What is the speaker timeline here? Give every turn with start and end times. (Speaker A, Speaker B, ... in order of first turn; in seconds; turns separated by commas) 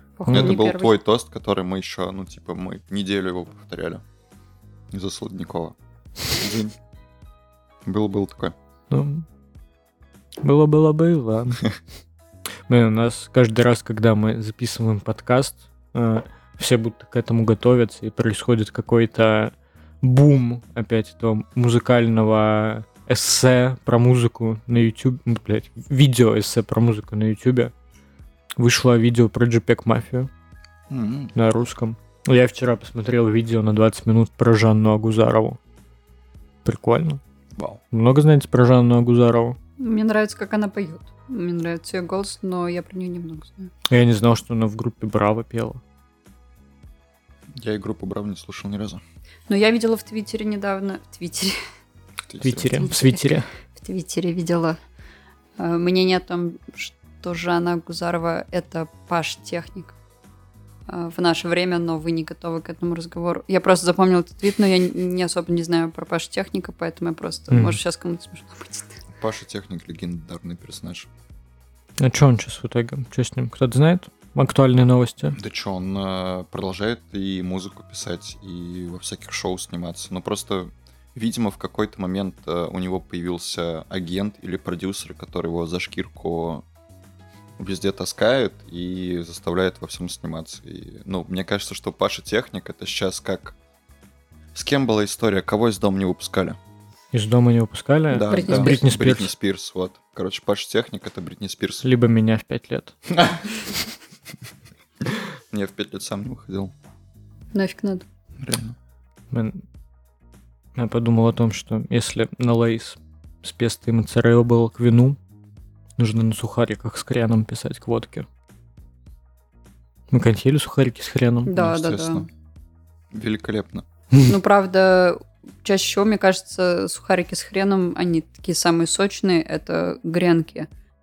Speaker A: 0.2-0.9, Speaker B: 0.3-0.5, Speaker C: 0.3-4.0, Speaker C: 4.9-5.8, Speaker C: 6.3-6.8, Speaker C: 7.8-8.6, Speaker B: 8.9-9.2, Speaker B: 10.4-11.7, Speaker B: 12.7-27.7, Speaker B: 28.6-30.3, Speaker C: 30.9-31.3, Speaker B: 31.4-35.6, Speaker B: 36.6-37.2, Speaker C: 37.6-37.8, Speaker B: 37.9-39.6, Speaker A: 39.8-43.7, Speaker B: 43.9-45.8, Speaker C: 47.5-49.0, Speaker A: 49.5-51.6, Speaker C: 52.3-52.9, Speaker B: 52.4-53.5, Speaker A: 52.8-54.8, Speaker A: 55.6-60.0, Speaker A: 60.9-69.0, Speaker B: 67.5-67.8, Speaker C: 69.2-71.1, Speaker B: 72.0-75.4, Speaker C: 75.3-86.7, Speaker C: 87.6-93.6, Speaker C: 94.5-96.6, Speaker B: 97.1-99.3, Speaker C: 98.1-101.9, Speaker A: 98.3-98.8, Speaker B: 101.8-103.0, Speaker C: 103.1-103.4, Speaker C: 105.5-106.7, Speaker A: 107.5-108.1, Speaker C: 108.4-108.8, Speaker B: 109.3-109.6, Speaker B: 110.8-115.2, Speaker B: 116.0-118.3, Speaker B: 120.1-121.5, Speaker A: 121.5-122.3, Speaker C: 121.5-122.3, Speaker C: 123.1-123.9, Speaker A: 124.3-130.7